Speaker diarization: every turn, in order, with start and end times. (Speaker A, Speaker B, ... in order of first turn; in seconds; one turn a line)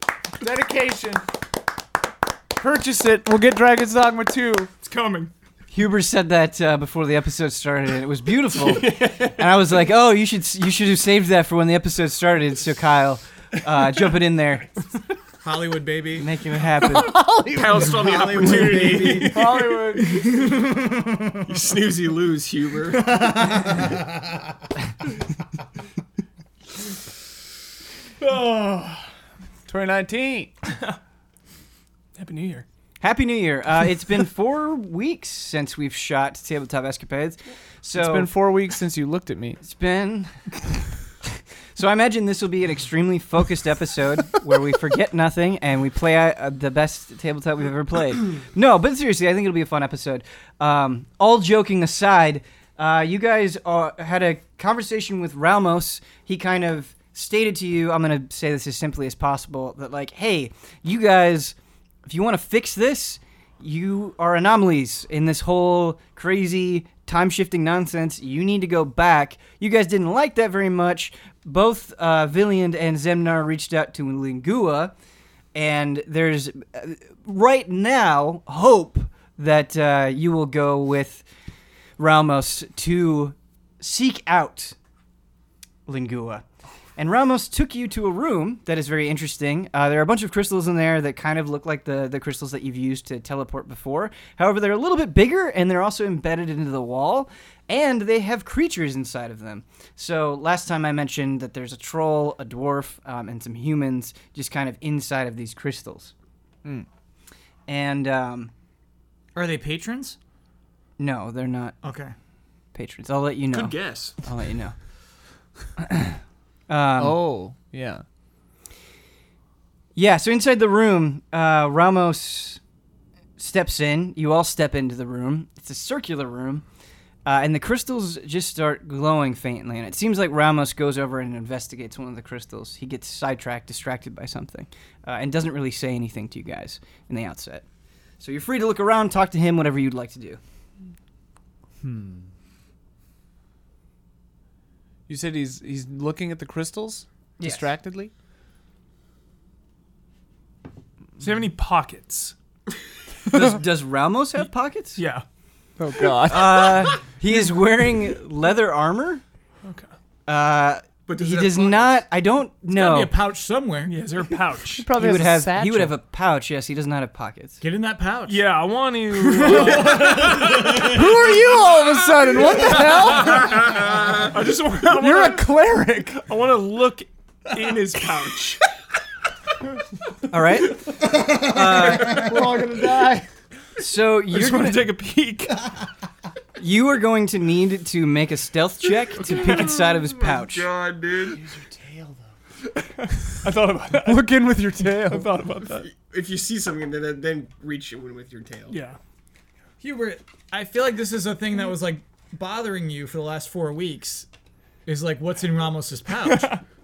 Speaker A: 0.4-1.2
Speaker A: 2.6-4.7
Speaker B: 4.8-5.3
Speaker C: 5.7-14.7
Speaker D: 8.6-9.5
Speaker E: 15.4-16.3
Speaker C: 16.2-17.2
Speaker A: 16.8-20.2
Speaker D: 17.5-19.4
Speaker E: 18.1-19.3
Speaker B: 19.1-19.8
Speaker D: 21.5-23.3
Speaker B: 23.1-23.9
Speaker B: 28.2-29.1
Speaker A: 29.7-30.5
Speaker B: 32.1-32.6
Speaker C: 33.0-38.3
Speaker A: 37.9-39.6
Speaker C: 39.6-40.4
Speaker C: 41.8-74.9
Speaker C: 75.5-81.2
Speaker C: 82.0-84.8
Speaker C: 85.8-86.4
Speaker C: 87.0-106.1
Speaker C: 107.7-108.5
Speaker E: 109.3-110.2
Speaker C: 111.0-111.8
Speaker E: 111.8-112.1
Speaker C: 112.7-114.7
Speaker D: 113.5-114.2
Speaker C: 115.8-117.2
Speaker A: 117.0-118.0
Speaker C: 119.9-122.6
Speaker C: 123.4-126.6
Speaker C: 127.2-137.6
Speaker C: 138.2-140.4
Speaker A: 141.8-142.3
Speaker A: 145.1-148.1
Speaker C: 147.4-147.7
Speaker B: 151.2-152.3
Speaker C: 153.3-155.0
Speaker B: 154.9-155.2
Speaker A: 155.8-156.8
Speaker C: 156.2-159.2
Speaker B: 159.6-159.9
Speaker C: 160.3-163.1
Speaker D: 161.1-162.0
Speaker E: 162.7-163.9
Speaker B: 163.8-164.9
Speaker A: 164.8-166.0
Speaker C: 164.9-167.6
Speaker E: 167.6-168.4
Speaker B: 168.2-170.7
Speaker E: 169.4-170.0
Speaker A: 169.5-174.0
Speaker B: 172.5-173.5
Speaker D: 173.6-174.3
Speaker B: 174.3-175.5
Speaker A: 174.9-176.2
Speaker B: 176.2-178.6
Speaker C: 180.3-182.3
Speaker A: 181.7-183.3
Speaker B: 181.7-182.6
Speaker C: 183.8-184.9
Speaker B: 184.3-185.6
Speaker C: 186.6-190.7
Speaker B: 189.3-189.9
Speaker D: 189.3-191.4
Speaker A: 191.3-192.3
Speaker B: 192.9-195.9
Speaker A: 193.9-195.3
Speaker D: 195.8-198.8
Speaker B: 198.7-199.0
Speaker E: 199.8-204.3
Speaker E: 204.8-206.5
Speaker B: 206.1-206.6